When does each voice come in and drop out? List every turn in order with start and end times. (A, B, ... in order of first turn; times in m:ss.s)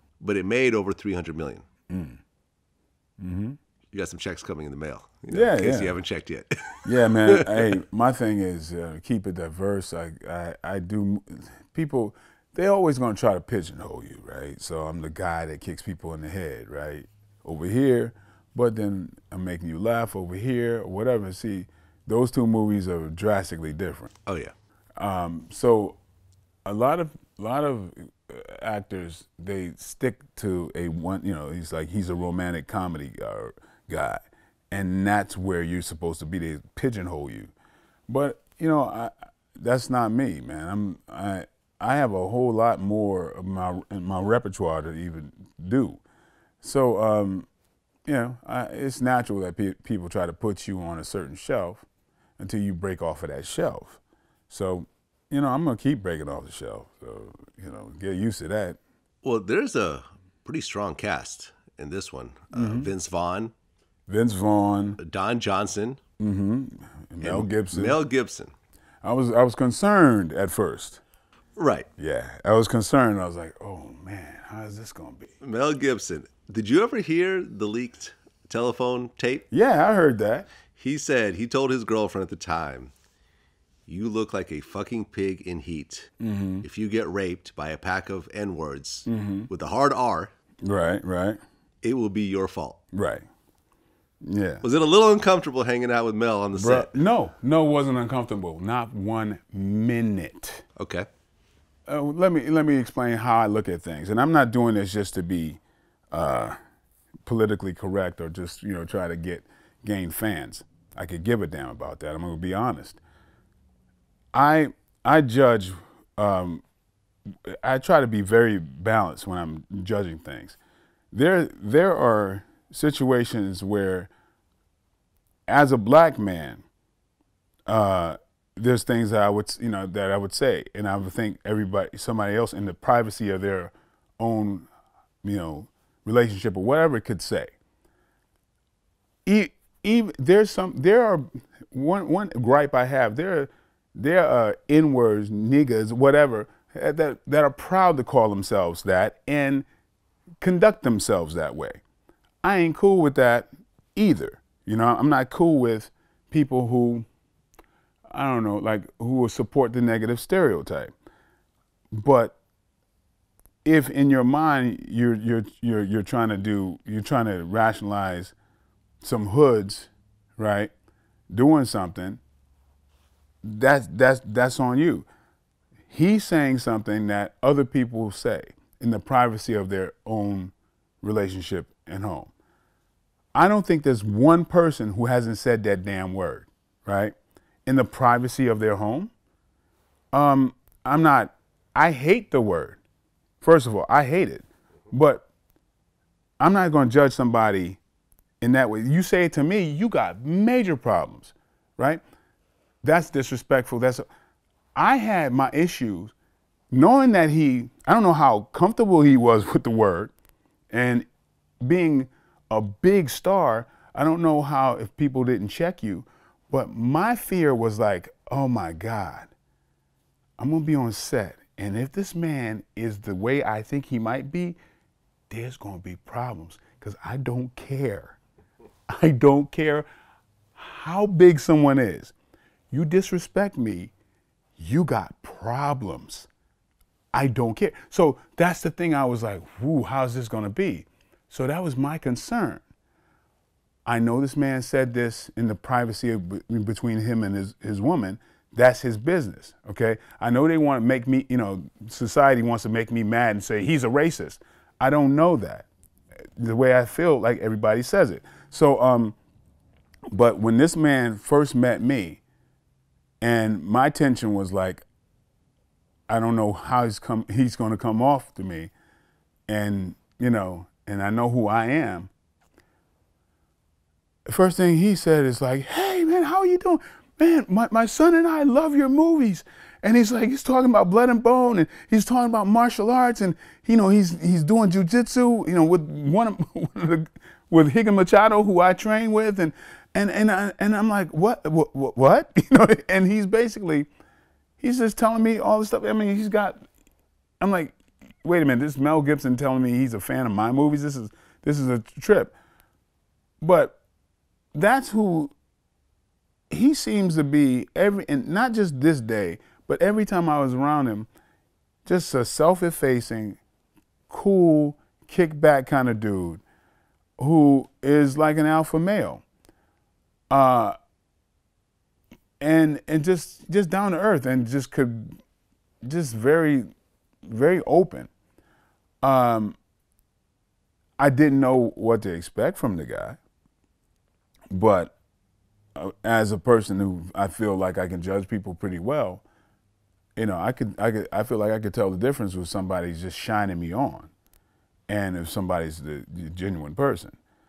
0:00.2-0:01.6 A
0:01.9-0:02.2 B
0:03.2-0:03.6 B
0:03.9-0:07.8 A
0:05.3-0:06.0 B
0:06.8-0:24.1 B
0:24.2-0:24.5 A
0:25.0-0:26.0 B
0:26.6-0:37.5 B
0:38.1-0:46.0 B
0:46.6-0:47.5 B
0:48.0-0:51.8 B
0:52.4-0:58.8 B
0:59.2-1:03.5 A
1:02.5-1:02.9 B
1:04.1-1:05.0 B
1:05.0-1:06.0 A
1:06.2-1:08.0 B
1:07.2-1:08.5 A
1:09.0-1:11.0 B
1:11.6-1:11.9 A
1:12.0-1:15.3 B
1:15.4-1:19.4 A
1:19.5-1:20.5 B
1:20.7-1:22.9 A
1:23.9-1:26.1 A
1:26.2-1:26.6 B
1:26.6-1:30.3 A
1:29.0-1:29.5 B
1:30.6-1:31.4 B
1:31.8-1:32.8 A
1:32.9-1:33.2 B
1:34.2-1:34.6 B
1:34.6-1:36.9 A
1:36.5-1:40.6 B
1:40.8-1:41.1 A
1:41.9-1:46.6 B
1:47.2-1:53.0 B
1:54.3-1:56.6 B
1:57.4-2:00.6 B
2:01.1-2:04.1 B
2:05.5-2:06.6 B
2:07.7-2:14.7 B
2:15.2-2:17.5 B
2:19.2-2:29.7 B
2:30.4-2:31.8 B
2:32.4-2:37.1 B
2:38.1-2:40.9 B
2:41.9-2:42.4 B
2:43.6-2:48.3 B
2:49.0-2:50.7 B
2:51.3-2:52.2 B
2:53.4-2:55.1 B
2:55.9-3:02.3 B
3:03.3-3:09.1 B
3:10.1-3:12.8 B
3:13.4-3:15.3 B
3:16.4-3:17.8 B
3:18.4-3:22.0 B
3:22.8-3:24.1 B
3:24.7-3:26.1 B
3:26.7-3:30.1 B
3:30.7-3:31.1 B
3:31.6-3:39.3 B
3:40.4-3:44.6 B
3:45.3-3:48.2 B
3:48.9-3:49.9 B
3:50.5-3:52.1 B
3:52.7-3:53.9 B
3:54.6-3:56.3 B
3:57.1-4:02.6 B
4:03.8-4:15.7 B
4:16.4-4:19.2 B
4:20.1-4:22.2 B
4:23.2-4:24.8 B
4:26.1-4:28.7 B
4:29.5-4:32.1 B
4:34.3-4:53.9 B
4:54.6-4:56.6 B
4:57.4-5:02.4 B
5:03.4-5:03.8 B
5:04.5-5:05.3 B
5:06.5-5:11.1 B
5:11.8-5:13.4 B
5:14.1-5:16.4 B
5:17.2-5:19.2 B
5:20.3-5:20.8 B
5:22.4-5:25.2 B
5:25.8-5:26.7 B
5:27.2-5:28.1 B
5:29.0-5:29.6 B
5:31.0-5:33.2 B
5:34.5-5:34.9 B
5:35.7-5:39.2 B
5:40.2-5:44.1 B
5:44.9-5:47.2 B